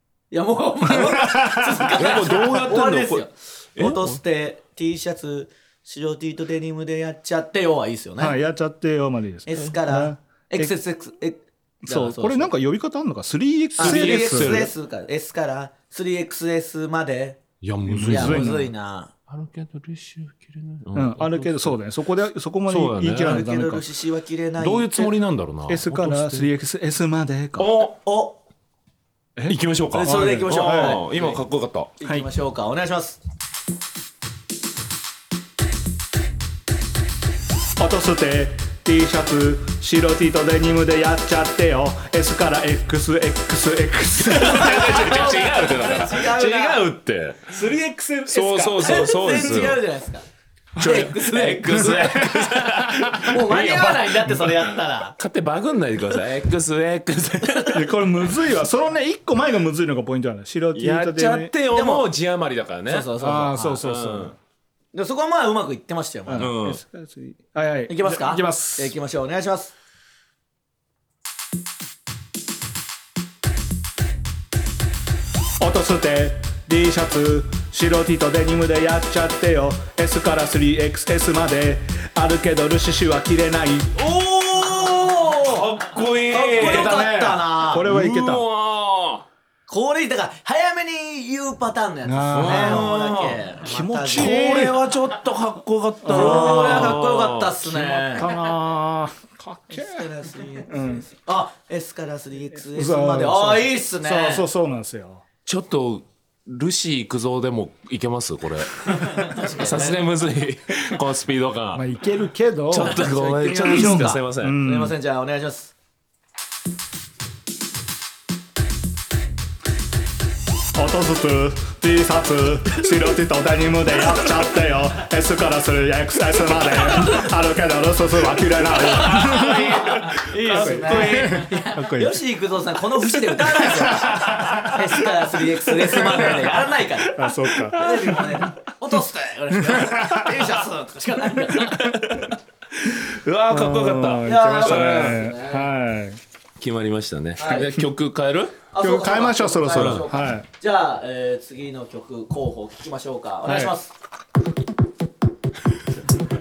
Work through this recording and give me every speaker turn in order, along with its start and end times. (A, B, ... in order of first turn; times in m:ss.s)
0:00.3-0:08.4 A
0:00.8-0:01.9 B
0:01.9-0:03.3 C
0:08.2-0:10.7 B
0:09.5-0:12.5 A
0:11.8-0:14.7 B
0:13.8-0:17.4 A
0:13.8-0:14.7 C
0:17.6-0:18.6 C
0:17.9-0:18.7 B
0:18.0-0:19.1 A
0:19.3-0:21.8 C
0:20.9-0:23.8 B
0:22.7-0:23.4 C
0:23.2-0:25.1 A
0:24.6-0:26.5 C
0:25.7-0:27.7 B
0:27.6-0:27.9 C
0:27.8-0:28.4 A
0:29.4-0:31.0 B
0:29.5-0:31.9 C
0:29.9-0:31.4 A
0:32.0-0:33.2 A
0:37.8-0:45.3 B
0:44.2-0:47.6 C
0:44.4-0:46.8 A
0:47.5-0:49.6 B
0:48.2-0:49.8 C
0:48.8-0:50.2 A
0:50.8-0:53.3 B
0:50.8-0:52.6 A
0:50.8-0:57.8 C
0:53.1-0:55.2 A
0:57.7-1:01.5 B
1:00.7-1:03.1 C
1:01.7-1:02.1 A
1:02.9-1:03.8 A
1:03.2-1:04.4 B
1:03.8-1:04.3 C
1:04.9-1:06.6 A
1:06.3-1:08.9 B
1:06.4-1:06.8 C
1:07.9-1:09.7 A
1:15.6-1:23.9 B
1:24.0-1:27.9 A
1:25.4-1:27.1 C
1:26.5-1:28.4 B
1:27.8-1:29.2 C
1:29.7-1:34.4 A
1:32.0-1:32.9 B
1:32.3-1:33.5 C
1:33.6-1:34.8 B
1:34.1-1:38.0 C
1:36.0-1:37.0 B
1:36.1-1:38.3 A
1:37.6-1:40.1 B
1:39.7-1:44.4 A
1:40.6-1:41.0 B
1:42.7-1:45.2 B
1:45.4-1:51.8 C
1:48.9-1:50.0 A
1:51.7-1:53.0 B
1:52.7-1:54.6 C
1:52.7-1:55.7 A
1:53.6-1:55.0 B
2:00.7-2:12.2 B
2:09.1-2:22.3 A
2:09.1-2:11.5 C
2:13.6-2:14.8 B
2:14.4-2:14.8 C
2:15.8-2:16.6 C
2:15.9-2:16.5 B
2:17.1-2:18.3 B
2:17.4-2:18.3 C
2:19.5-2:20.4 B
2:21.5-2:25.2 C
2:23.5-2:26.2 B
2:24.2-2:25.7 A
2:26.6-2:28.6 C
2:27.4-2:27.7 A
2:28.7-2:33.9 A
2:28.8-2:30.5 B
2:29.7-2:30.0 C
2:33.4-2:33.7 B